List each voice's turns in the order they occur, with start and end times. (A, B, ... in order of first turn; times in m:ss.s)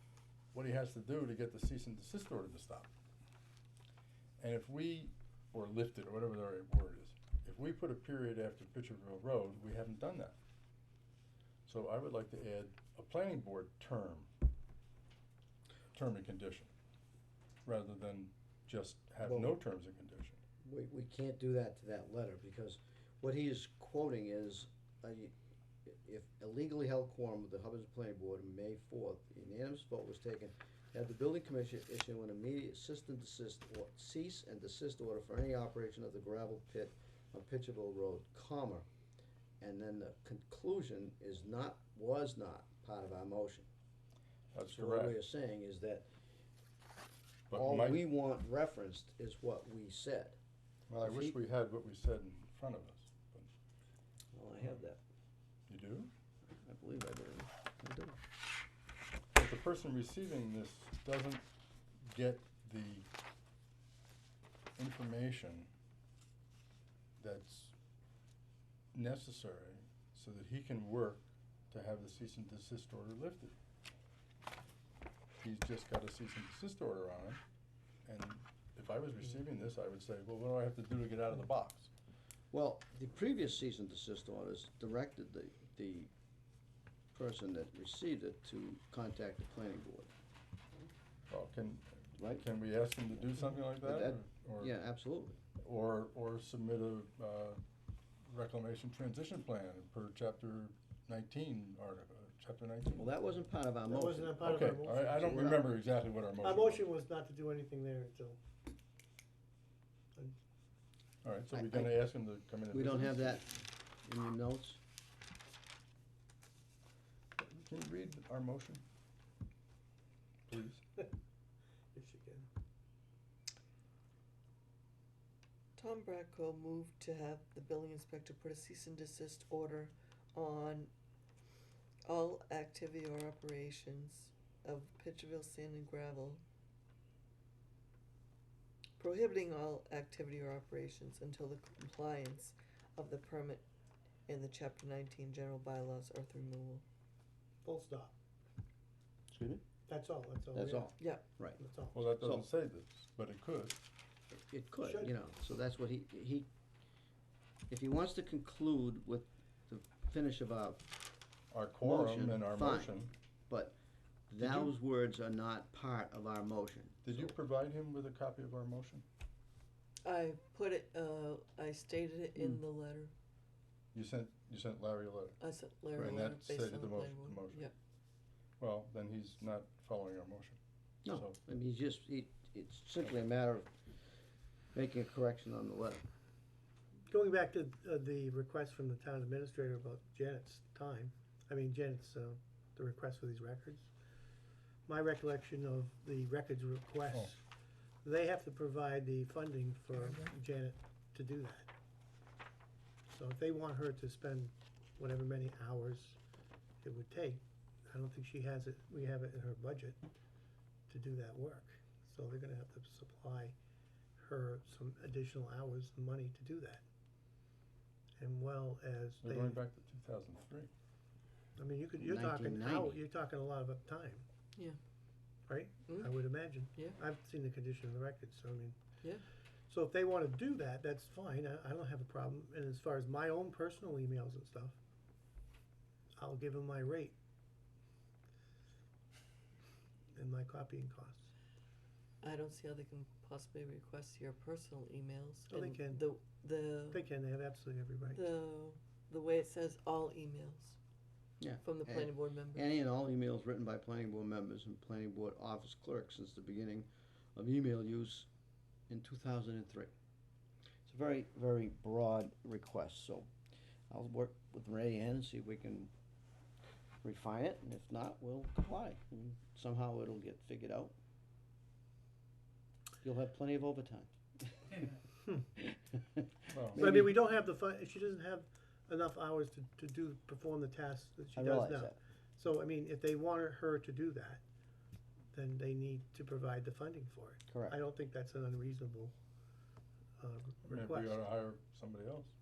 0:00.5-0:02.9 A
0:04.4-0:10.4 A
0:11.7-0:14.3 A
0:15.9-0:16.7 A
0:17.6-0:20.4 A
0:19.2-0:19.6 B
0:20.6-0:25.3 B
0:25.8-0:38.9 B
0:39.6-0:43.7 B
0:44.5-0:45.2 A
0:44.7-0:46.1 B
0:47.5-0:48.0 A
0:47.5-0:50.4 B
0:50.9-0:53.5 A
0:51.0-0:51.4 B
0:54.3-0:55.0 B
0:55.7-0:56.1 A
0:56.5-0:58.2 B
0:59.3-1:01.4 A
1:02.0-1:03.1 A
1:04.8-1:05.7 A
1:07.2-1:07.7 A
1:08.9-1:13.6 A
1:15.4-1:17.4 A
1:18.1-1:21.9 A
1:22.5-1:26.1 B
1:27.1-1:30.1 B
1:31.3-1:34.7 A
1:32.2-1:32.4 B
1:33.3-1:35.4 B
1:35.6-1:37.6 A
1:38.3-1:43.2 A
1:43.0-1:45.6 B
1:43.9-1:45.6 C
1:44.4-1:46.8 A
1:46.4-1:48.4 C
1:51.2-1:53.4 A
1:51.5-1:52.0 B
1:52.7-1:54.8 B
1:57.4-1:58.8 A
2:00.5-2:00.8 A
2:01.9-2:02.5 C
2:05.8-2:10.9 D
2:12.1-2:16.4 D
2:19.0-2:23.6 D
2:24.3-2:26.8 D
2:27.6-2:28.2 C
2:29.3-2:29.6 B
2:29.9-2:31.0 C
2:30.5-2:31.6 B
2:31.0-2:31.2 D
2:31.6-2:32.0 C
2:31.9-2:33.8 A
2:32.2-2:32.5 B
2:34.3-2:36.5 B
2:34.8-2:35.1 C
2:37.7-2:40.8 B
2:41.5-2:43.1 A
2:41.8-2:43.0 B
2:43.5-2:43.8 B
2:44.3-2:47.3 B
2:44.4-2:44.7 A
2:47.0-2:49.0 A
2:50.0-2:53.1 D
2:53.9-2:55.4 A
2:55.4-2:57.7 D
2:55.9-2:57.7 A
2:58.6-3:01.4 A
3:01.0-3:03.7 B
3:04.7-3:06.0 B
3:07.1-3:13.9 C
3:14.9-3:17.4 C
3:18.0-3:21.7 C
3:23.1-3:26.2 C
3:26.8-3:30.0 C
3:30.9-3:33.6 C
3:34.2-3:36.8 C
3:38.2-3:39.6 C
3:39.2-3:40.7 A
3:41.6-3:44.3 C
3:42.0-3:43.0 B
3:45.5-3:48.8 C
3:45.9-3:47.0 D
3:49.7-3:54.8 C
3:56.2-3:57.2 C
4:00.2-4:01.3 C
4:02.2-4:07.0 D
4:05.5-4:06.0 C
4:06.9-4:08.2 C
4:08.1-4:10.8 D
4:11.4-4:18.3 B
4:11.6-4:12.7 D
4:18.9-4:19.9 B
4:20.9-4:23.3 B
4:23.9-4:25.9 B
4:27.0-4:30.9 B
4:33.0-4:34.9 B
4:35.6-4:37.1 B
4:36.5-4:36.9 A
4:36.8-4:44.4 C
4:41.4-4:42.0 B
4:45.3-4:49.1 C
4:47.5-4:47.8 B
4:50.2-4:51.2 C
4:50.6-4:52.3 A